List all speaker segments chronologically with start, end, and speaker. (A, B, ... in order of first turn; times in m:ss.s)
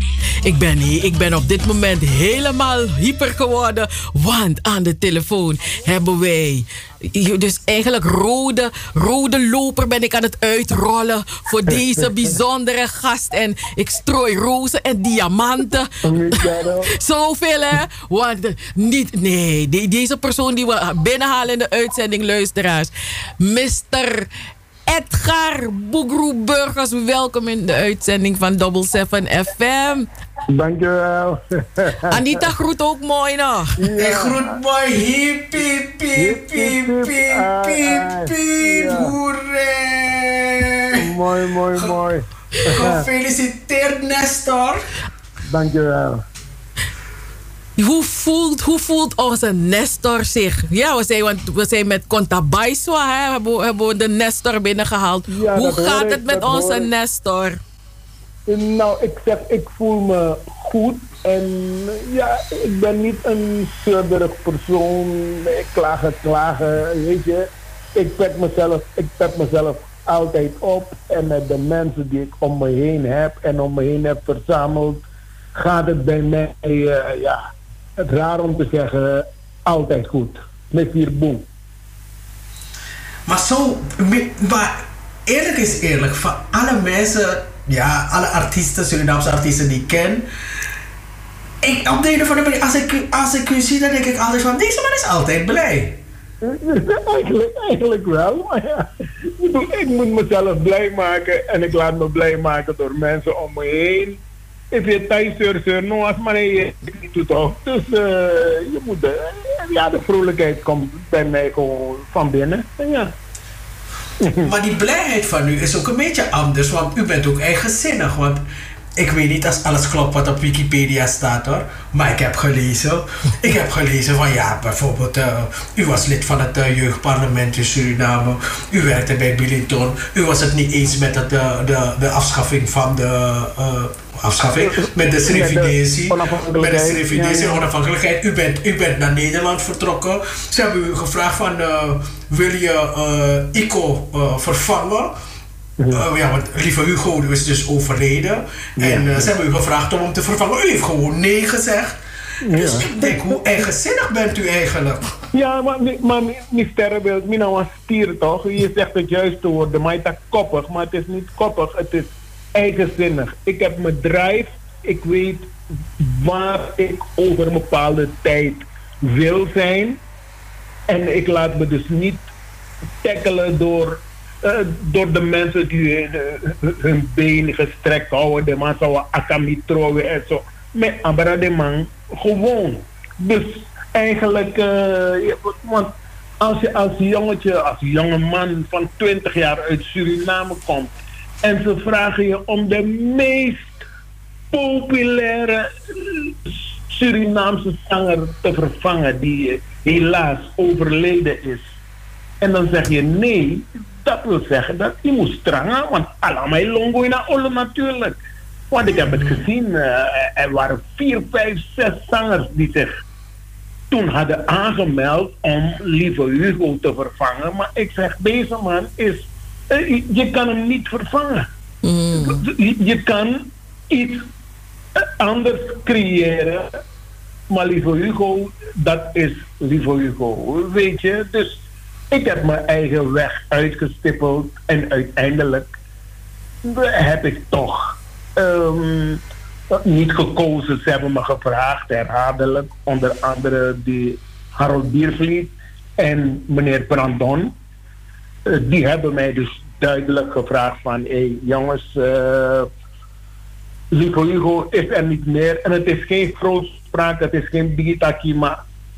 0:00.4-0:24.3 A
0:11.7-0:12.1 B
0:16.0-0:16.9 B
0:24.9-0:30.1 A
0:30.5-0:32.5 B
0:32.1-0:33.8 A
0:33.8-0:34.6 B
0:34.0-0:41.0 C
0:36.1-0:39.1 B
0:40.9-0:43.1 B
0:42.6-0:44.8 C
0:45.5-0:46.2 B
0:47.8-0:57.6 A
0:55.3-0:56.9 B
0:58.5-1:17.4 B
1:18.0-1:21.4 B
1:23.2-1:30.2 C
1:31.6-1:36.0 C
1:36.4-1:44.2 B
1:44.7-1:53.1 B
1:54.2-1:54.5 B
1:54.4-1:58.4 C
1:59.0-2:25.1 C
2:14.4-2:17.6 B
2:25.8-2:26.0 B
2:25.9-2:32.0 C
2:28.8-2:29.3 B
2:32.4-2:33.4 B
2:32.5-2:35.0 C
2:35.3-2:50.0 B
2:50.9-2:52.3 B
2:53.0-3:10.9 B
3:11.4-3:13.8 B
3:14.5-3:21.6 B
3:22.4-3:28.2 B
3:28.7-3:33.0 B
3:29.0-3:29.4 C
3:33.9-3:41.5 B
3:41.8-3:42.4 A
3:42.1-3:44.2 B
3:45.0-3:46.7 B
3:47.5-3:55.7 B
3:56.6-4:07.5 B
4:08.4-4:12.7 B
4:13.9-4:18.6 B